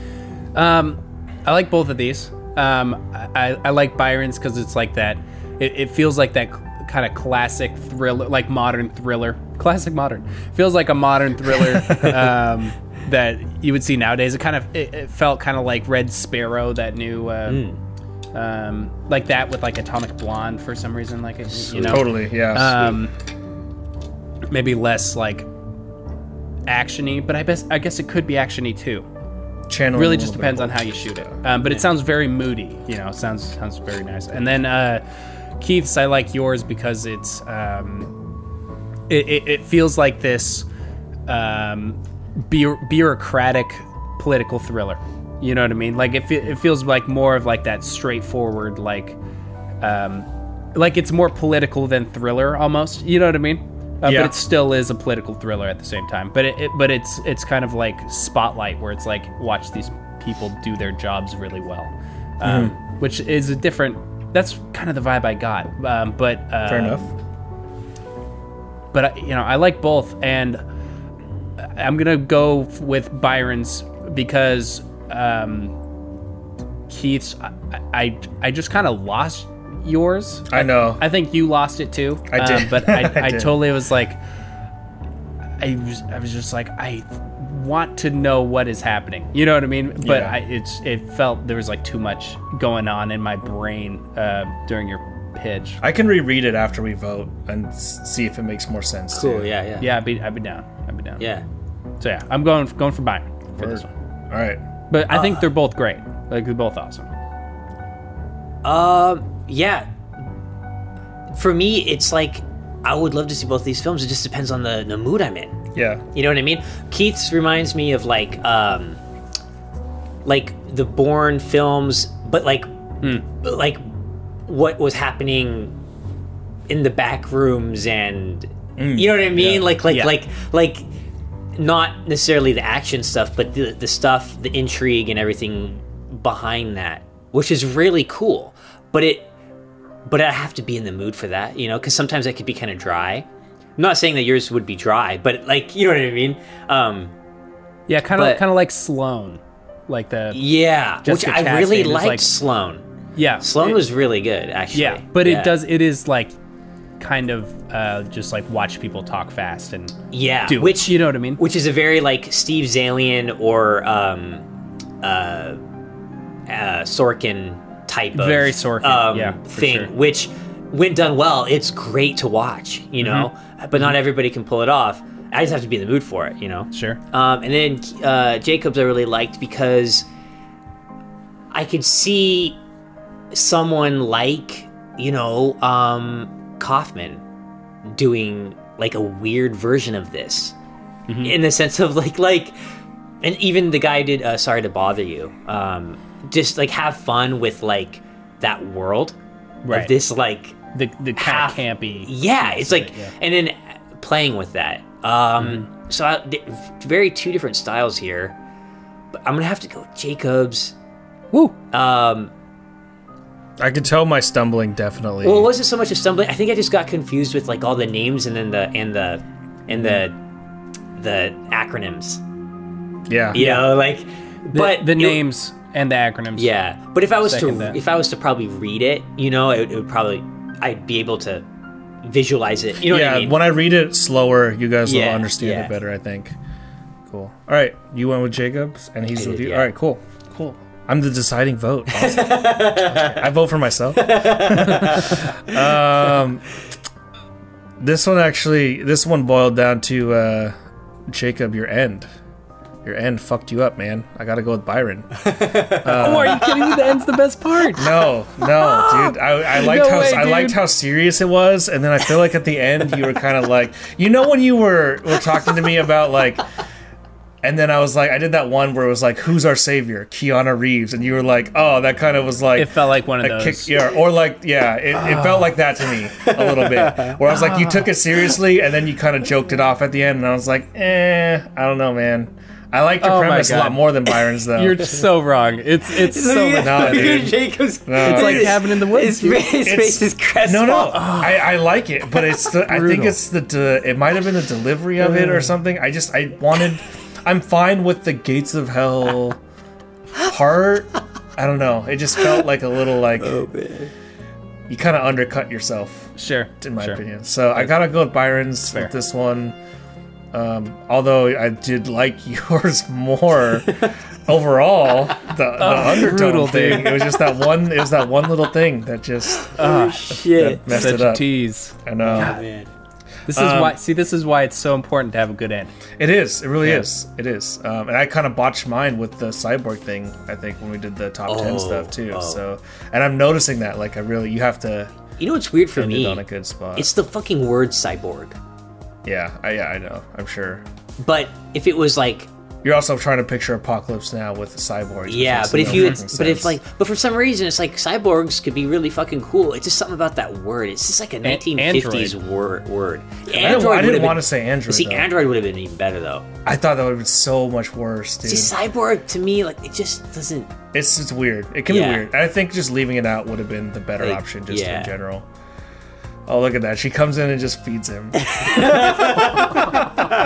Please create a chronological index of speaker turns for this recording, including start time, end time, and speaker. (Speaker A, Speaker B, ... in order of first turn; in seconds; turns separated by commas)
Speaker A: 0.5-17.7, Speaker B: 11.8-12.2, Speaker B: 17.5-17.8, Speaker A: 18.3-23.1, Speaker B: 21.7-22.0, Speaker C: 21.8-23.0, Speaker A: 24.5-25.5, Speaker A: 26.7-29.1, Speaker C: 29.7-31.4, Speaker A: 29.9-35.0, Speaker A: 35.6-38.1, Speaker A: 39.1-40.7, Speaker A: 41.3-49.2, Speaker A: 49.8-67.0, Speaker C: 54.0-54.4, Speaker C: 62.4-62.7, Speaker C: 66.7-67.1, Speaker A: 68.9-70.6, Speaker A: 71.8-75.7, Speaker A: 76.9-84.2, Speaker C: 80.5-81.0, Speaker C: 82.3-83.6, Speaker A: 85.6-95.8, Speaker C: 90.0-90.4, Speaker C: 95.8-99.5, Speaker B: 99.1-99.9, Speaker A: 99.8-101.3, Speaker B: 101.2-101.5, Speaker A: 102.0-103.9, Speaker C: 103.6-104.6, Speaker A: 104.9-107.1, Speaker B: 105.1-105.5, Speaker B: 108.6-109.9, Speaker B: 111.3-115.5, Speaker C: 115.8-116.0, Speaker B: 116.2-119.0, Speaker B: 120.2-123.8, Speaker B: 124.5-125.8, Speaker B: 126.7-130.8, Speaker C: 128.8-129.8, Speaker A: 129.9-130.2, Speaker B: 131.6-139.3, Speaker B: 140.1-147.1, Speaker A: 147.9-150.4, Speaker B: 148.1-148.4, Speaker B: 150.3-152.8, Speaker A: 151.0-152.3, Speaker A: 153.2-153.8, Speaker B: 153.4-155.6, Speaker A: 154.7-156.3, Speaker A: 157.0-159.9, Speaker B: 160.1-164.4, Speaker A: 160.5-161.4, Speaker B: 165.0-165.6, Speaker B: 166.5-180.1, Speaker A: 168.1-169.9, Speaker A: 173.0-174.0, Speaker A: 176.7-177.0, Speaker B: 181.5-182.6, Speaker B: 183.3-187.2, Speaker B: 187.9-190.6, Speaker A: 191.1-191.4, Speaker B: 191.2-192.6, Speaker B: 193.2-199.2, Speaker A: 199.6-199.9, Speaker B: 199.7-200.6, Speaker A: 200.7-203.1, Speaker B: 201.2-208.4, Speaker A: 205.4-205.7, Speaker B: 209.2-210.8, Speaker B: 211.7-212.3, Speaker C: 213.6-215.5, Speaker B: 215.2-220.2, Speaker B: 221.0-222.2, Speaker C: 223.1-223.4, Speaker B: 223.3-225.2, Speaker A: 223.3-223.7, Speaker A: 224.5-226.5, Speaker B: 226.4-231.4, Speaker A: 227.2-227.8, Speaker B: 232.0-233.4, Speaker C: 232.8-236.3, Speaker B: 234.8-235.8, Speaker C: 237.1-246.5, Speaker B: 239.2-239.7, Speaker B: 241.9-243.3, Speaker B: 244.0-245.3, Speaker C: 247.8-250.6, Speaker C: 251.1-252.1, Speaker C: 252.8-255.2, Speaker B: 255.2-256.9, Speaker C: 255.8-256.4, Speaker A: 255.9-258.0, Speaker C: 257.8-266.4, Speaker A: 258.8-260.6, Speaker C: 267.4-284.9, Speaker A: 272.6-273.9, Speaker B: 276.0-277.2, Speaker A: 277.3-277.9, Speaker A: 283.0-283.9, Speaker A: 284.5-287.3, Speaker B: 285.9-291.0, Speaker C: 286.6-288.6, Speaker A: 288.0-289.5, Speaker C: 289.6-299.4, Speaker A: 290.9-291.5, Speaker A: 292.5-293.2, Speaker B: 295.2-295.4, Speaker C: 300.2-303.4, Speaker B: 303.2-303.9, Speaker C: 304.7-309.6, Speaker A: 306.2-307.0, Speaker A: 307.5-307.9, Speaker C: 310.3-319.5, Speaker A: 315.6-317.1, Speaker B: 319.4-321.0, Speaker A: 319.6-322.4, Speaker C: 320.1-322.4, Speaker B: 322.1-322.7, Speaker A: 323.3-325.7, Speaker C: 323.3-323.8, Speaker C: 326.0-334.9, Speaker A: 326.6-326.9, Speaker B: 331.3-332.4, Speaker B: 335.2-336.2, Speaker C: 335.8-336.9, Speaker B: 336.8-338.4, Speaker C: 339.1-340.6, Speaker B: 341.0-342.3, Speaker C: 342.6-346.6, Speaker B: 345.1-356.3, Speaker A: 345.7-346.0, Speaker A: 351.2-352.2, Speaker C: 353.3-355.1, Speaker C: 356.4-358.6, Speaker B: 358.2-360.5, Speaker C: 360.7-365.3, Speaker B: 361.7-362.1, Speaker B: 364.0-364.9, Speaker C: 366.3-369.8, Speaker B: 368.3-369.8